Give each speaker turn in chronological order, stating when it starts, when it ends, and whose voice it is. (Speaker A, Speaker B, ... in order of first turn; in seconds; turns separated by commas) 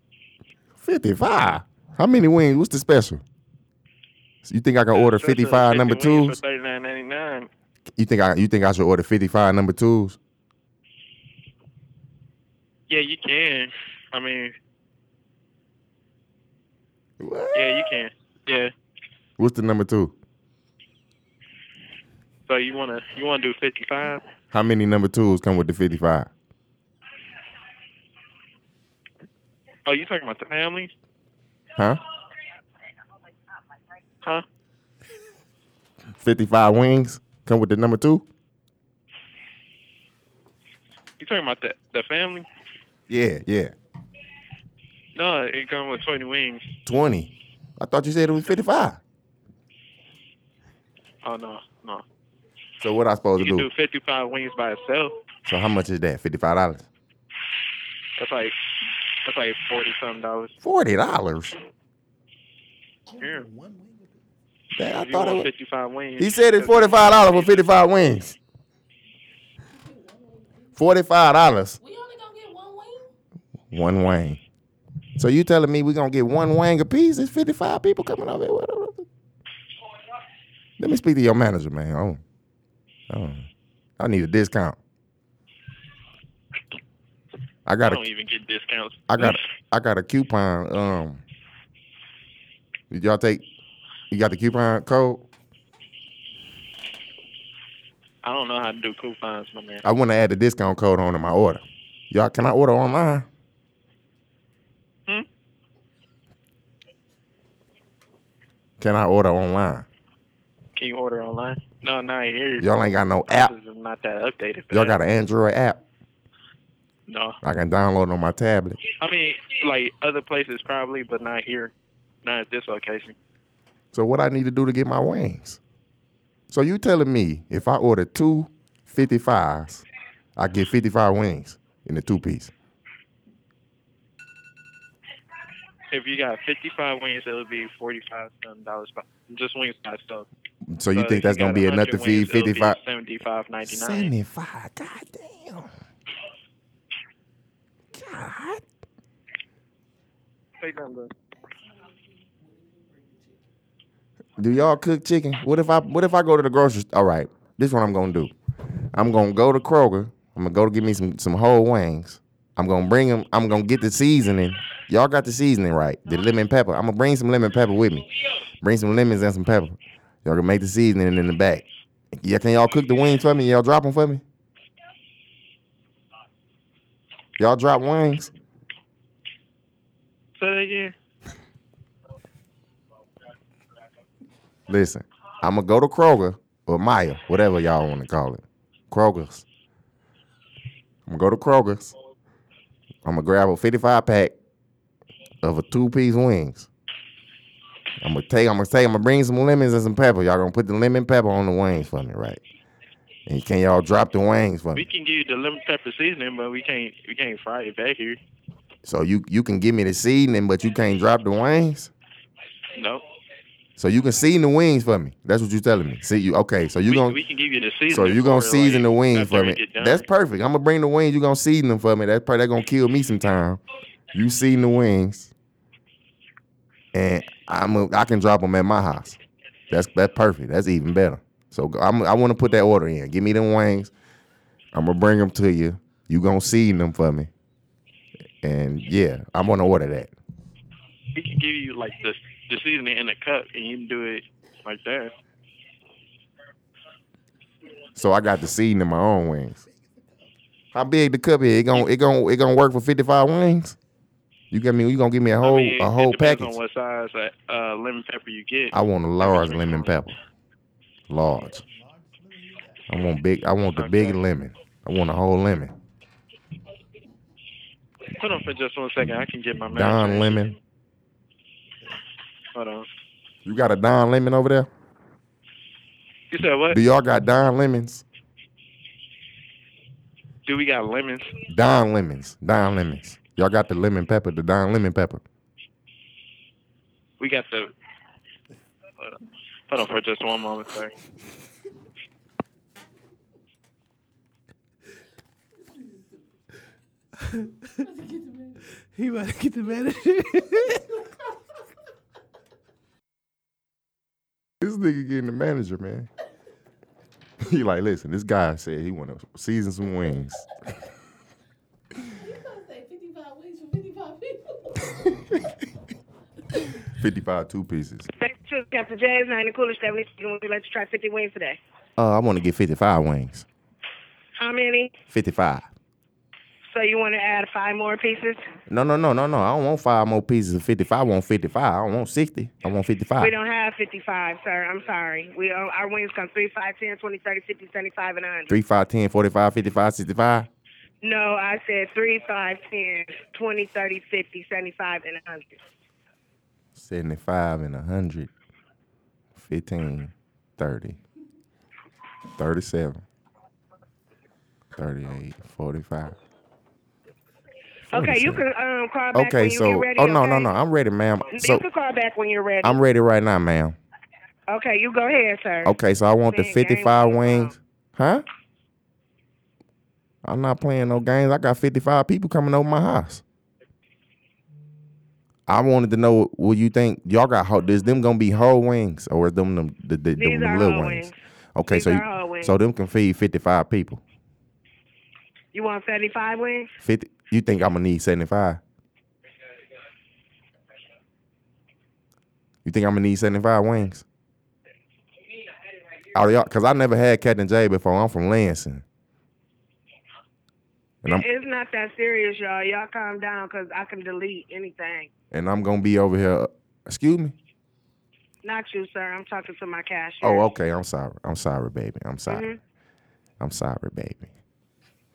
Speaker A: 0.8-3.2, Speaker A: 4.4-6.4, Speaker B: 4.9-7.5, Speaker A: 8.0-10.2, Speaker B: 12.9-14.5, Speaker A: 17.2-18.0, Speaker B: 17.5-18.7, Speaker A: 19.4-20.1, Speaker B: 22.5-24.2, Speaker A: 24.5-26.3, Speaker B: 29.9-30.9, Speaker A: 36.2-38.3, Speaker B: 41.2-42.5, Speaker A: 43.1-43.7, Speaker B: 45.1-46.6, Speaker A: 46.9-49.0, Speaker B: 51.2-52.0, Speaker A: 52.8-53.7, Speaker B: 53.4-55.2, Speaker A: 55.5-56.9, Speaker B: 58.2-58.6, Speaker B: 59.2-60.5, Speaker A: 60.6-61.6, Speaker B: 63.1-63.5, Speaker C: 63.2-64.1, Speaker A: 64.8-65.5, Speaker B: 64.9-67.7, Speaker A: 66.2-68.4, Speaker A: 70.8-71.8, Speaker D: 71.8-73.1, Speaker A: 73.7-74.4, Speaker A: 75.2-79.1, Speaker A: 80.8-82.2, Speaker A: 83.1-83.5, Speaker A: 84.0-84.8, Speaker A: 87.7-88.0, Speaker B: 87.8-89.4, Speaker A: 89.1-91.2, Speaker A: 92.9-93.4, Speaker A: 94.1-95.3, Speaker B: 98.2-99.8, Speaker A: 99.8-103.3, Speaker A: 108.8-109.9, Speaker B: 110.8-112.7, Speaker A: 112.6-113.5, Speaker B: 113.3-115.0, Speaker A: 114.7-115.8, Speaker B: 117.1-117.4, Speaker A: 117.4-118.8, Speaker B: 119.0-123.2, Speaker A: 123.9-125.6, Speaker A: 126.5-129.8, Speaker A: 130.4-132.5, Speaker B: 135.9-140.3, Speaker A: 140.7-142.8, Speaker B: 140.9-144.1, Speaker A: 143.7-145.7, Speaker A: 147.9-148.6, Speaker B: 150.6-151.1, Speaker A: 154.4-158.3, Speaker A: 158.9-168.1, Speaker A: 168.6-174.2, Speaker A: 177.4-178.3, Speaker B: 180.4-180.9, Speaker A: 184.7-189.4, Speaker A: 191.1-191.9, Speaker A: 193.1-194.3, Speaker A: 195.4-196.7, Speaker A: 198.0-202.4, Speaker A: 203.3-204.8, Speaker B: 204.8-208.2, Speaker A: 208.8-211.9, Speaker B: 212.8-213.0, Speaker A: 213.8-217.2, Speaker B: 216.9-220.0, Speaker A: 217.9-223.6, Speaker A: 224.1-225.3, Speaker A: 226.9-229.2, Speaker A: 229.7-233.9, Speaker A: 234.7-237.3, Speaker A: 238.4-240.1, Speaker B: 241.1-245.1, Speaker A: 247.9-249.6, Speaker A: 250.7-253.8, Speaker A: 254.5-256.6, Speaker B: 255.4-259.9, Speaker A: 258.7-260.2, Speaker A: 261.1-261.6, Speaker C: 262.3-262.6, Speaker A: 262.9-265.7, Speaker B: 263.8-264.2, Speaker B: 268.1-270.6, Speaker A: 269.7-270.6, Speaker B: 272.6-272.9, Speaker A: 273.4-274.7, Speaker B: 276.3-276.8, Speaker A: 276.7-278.0, Speaker B: 280.5-281.4, Speaker A: 281.5-285.2, Speaker B: 287.2-287.7, Speaker B: 289.7-290.9, Speaker C: 297.3-297.9, Speaker C: 298.9-300.9, Speaker A: 304.6-306.1, Speaker A: 307.4-310.5, Speaker D: 312.1-315.1, Speaker A: 316.9-318.1, Speaker E: 318.2-321.6, Speaker A: 322.0-323.5, Speaker E: 324.4-324.9, Speaker A: 325.1-325.7, Speaker E: 326.7-328.4, Speaker A: 328.7-333.3, Speaker E: 333.2-338.6, Speaker A: 338.5-340.5, Speaker E: 341.0-345.6, Speaker A: 346.8-348.3, Speaker A: 349.4-351.0, Speaker A: 352.4-353.0, Speaker A: 354.8-356.2, Speaker A: 357.9-358.4, Speaker E: 357.9-360.5, Speaker A: 359.1-361.6, Speaker E: 361.3-362.8, Speaker A: 362.6-363.8, Speaker E: 364.5-365.7, Speaker A: 365.6-368.2, Speaker E: 366.3-367.6, Speaker A: 370.2-373.2, Speaker A: 375.5-384.0, Speaker E: 380.2-381.1, Speaker E: 381.7-382.5, Speaker E: 385.5-386.7, Speaker A: 386.8-388.6, Speaker A: 392.6-394.1, Speaker A: 396.1-398.8, Speaker E: 401.1-405.1, Speaker A: 405.3-407.4, Speaker E: 408.4-410.5, Speaker A: 410.2-412.5, Speaker E: 412.3-412.6, Speaker A: 413.4-414.3